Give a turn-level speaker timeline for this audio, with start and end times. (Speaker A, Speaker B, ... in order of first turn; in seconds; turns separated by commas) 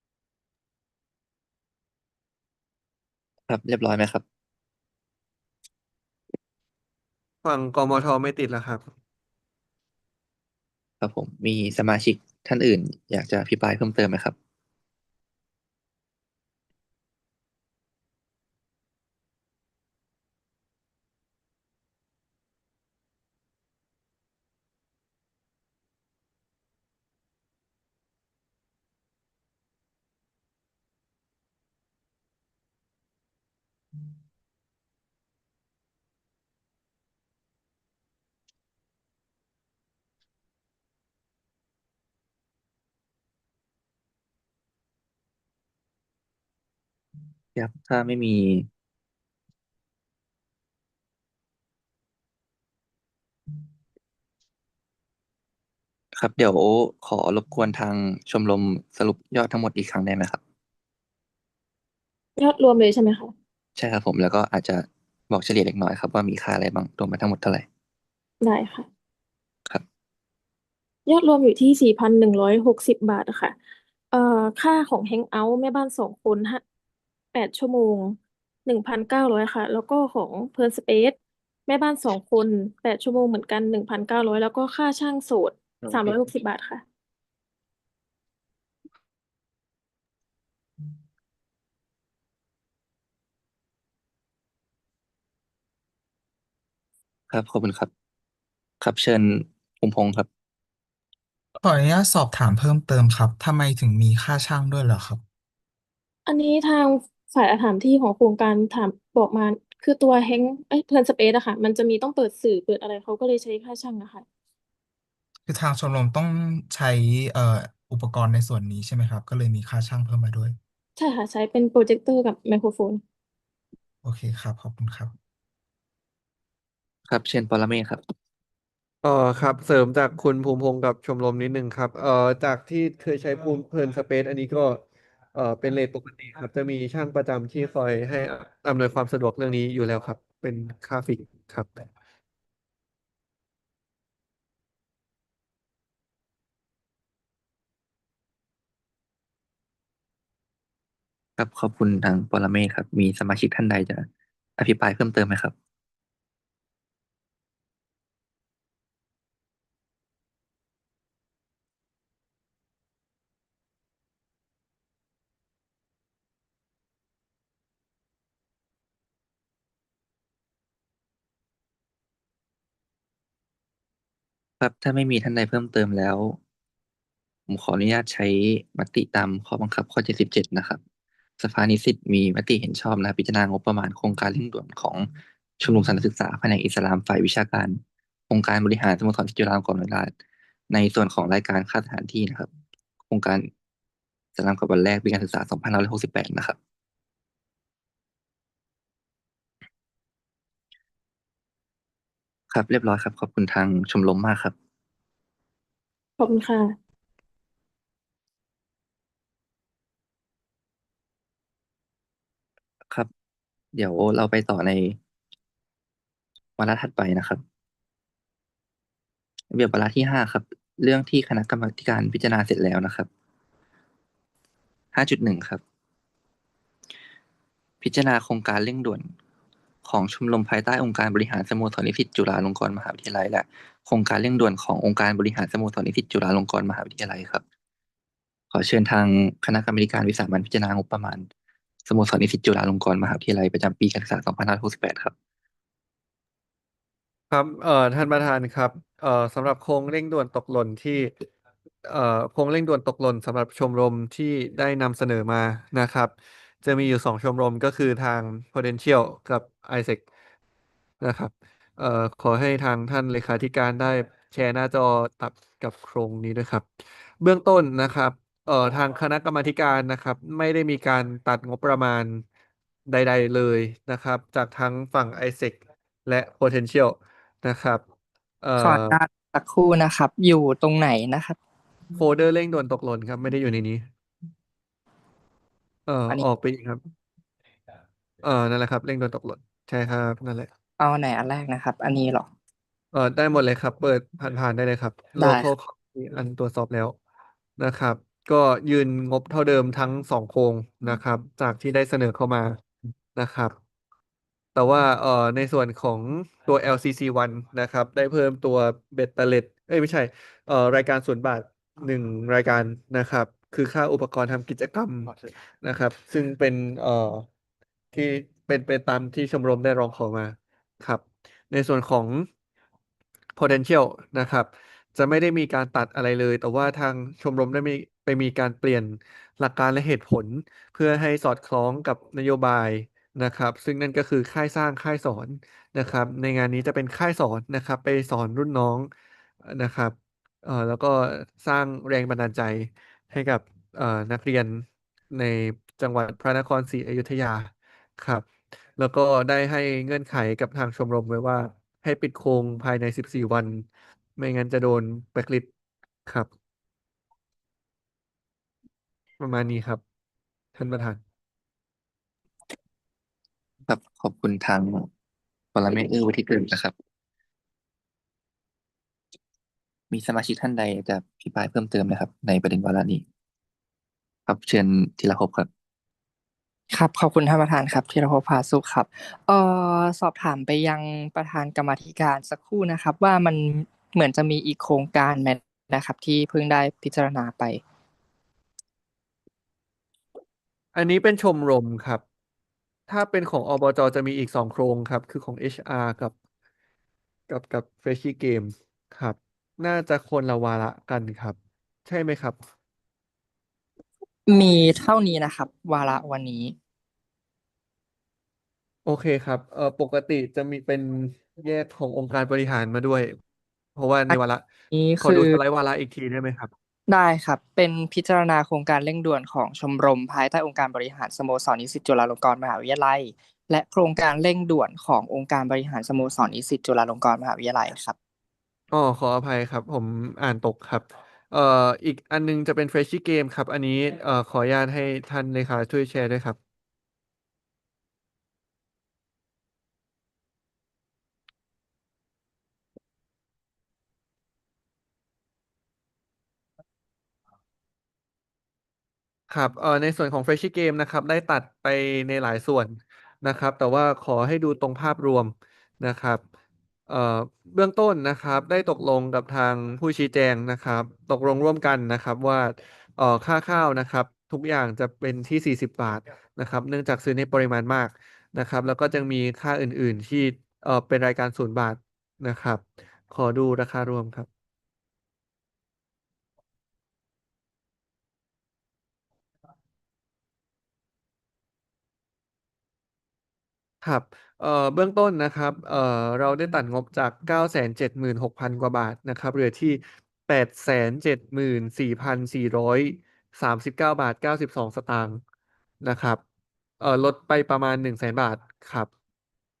Speaker A: 3.5-4.2, Speaker B: 7.4-8.8, Speaker A: 11.0-14.3, Speaker A: 47.5-48.7, Speaker A: 56.1-60.4, Speaker C: 62.4-63.3, Speaker A: 63.8-67.7, Speaker C: 68.4-68.9, Speaker C: 71.0-73.5, Speaker C: 74.1-76.6, Speaker C: 77.3-81.1, Speaker C: 81.7-86.8, Speaker A: 97.3-97.9, Speaker A: 98.8-100.3, Speaker D: 101.6-105.2, Speaker C: 106.3-114.2, Speaker D: 115.5-120.6, Speaker C: 121.0-123.0, Speaker D: 124.0-125.1, Speaker A: 127.1-128.0, Speaker B: 129.0-134.8, Speaker B: 135.3-141.8, Speaker A: 151.4-154.1, Speaker A: 154.6-155.5, Speaker A: 174.6-176.4, Speaker A: 177.5-180.8, Speaker A: 181.4-185.1, Speaker A: 185.6-190.1, Speaker A: 190.7-192.5, Speaker A: 193.1-193.5, Speaker A: 194.4-196.6, Speaker A: 202.5-204.5, Speaker C: 206.2-206.7, Speaker A: 213.7-215.0, Speaker A: 216.6-217.4, Speaker A: 219.5-223.1, Speaker A: 224.9-225.6, Speaker A: 227.8-229.1, Speaker A: 229.8-237.4, Speaker A: 238.5-241.2, Speaker A: 241.9-245.1, Speaker B: 247.3-251.1, Speaker B: 251.8-256.1, Speaker B: 256.6-260.0, Speaker B: 261.0-266.6, Speaker B: 267.2-272.2, Speaker B: 272.9-277.8, Speaker B: 278.4-279.0, Speaker E: 278.6-281.4, Speaker B: 281.9-283.8, Speaker B: 285.9-286.8, Speaker B: 288.2-290.5, Speaker E: 290.8-292.3, Speaker B: 292.9-297.0, Speaker E: 295.2-295.5, Speaker B: 297.6-302.6, Speaker B: 303.1-303.5, Speaker B: 304.5-317.2, Speaker B: 317.9-322.2, Speaker B: 323.4-338.9, Speaker B: 339.4-353.6, Speaker B: 354.2-355.5, Speaker B: 359.2-359.8, Speaker B: 360.6-361.0, Speaker A: 363.7-364.9, Speaker A: 365.5-366.7, Speaker A: 369.9-373.0, Speaker A: 374.3-375.5, Speaker E: 376.7-387.6, Speaker B: 390.7-392.0, Speaker B: 392.9-396.1, Speaker B: 397.3-402.4, Speaker E: 404.3-406.5, Speaker B: 408.9-413.1, Speaker B: 413.8-414.4, Speaker E: 414.7-415.4, Speaker B: 415.0-416.5, Speaker E: 416.9-427.9, Speaker B: 428.7-436.4, Speaker B: 449.3-456.2, Speaker B: 456.9-474.3, Speaker B: 483.8-495.2, Speaker B: 495.8-496.2, Speaker B: 496.8-498.9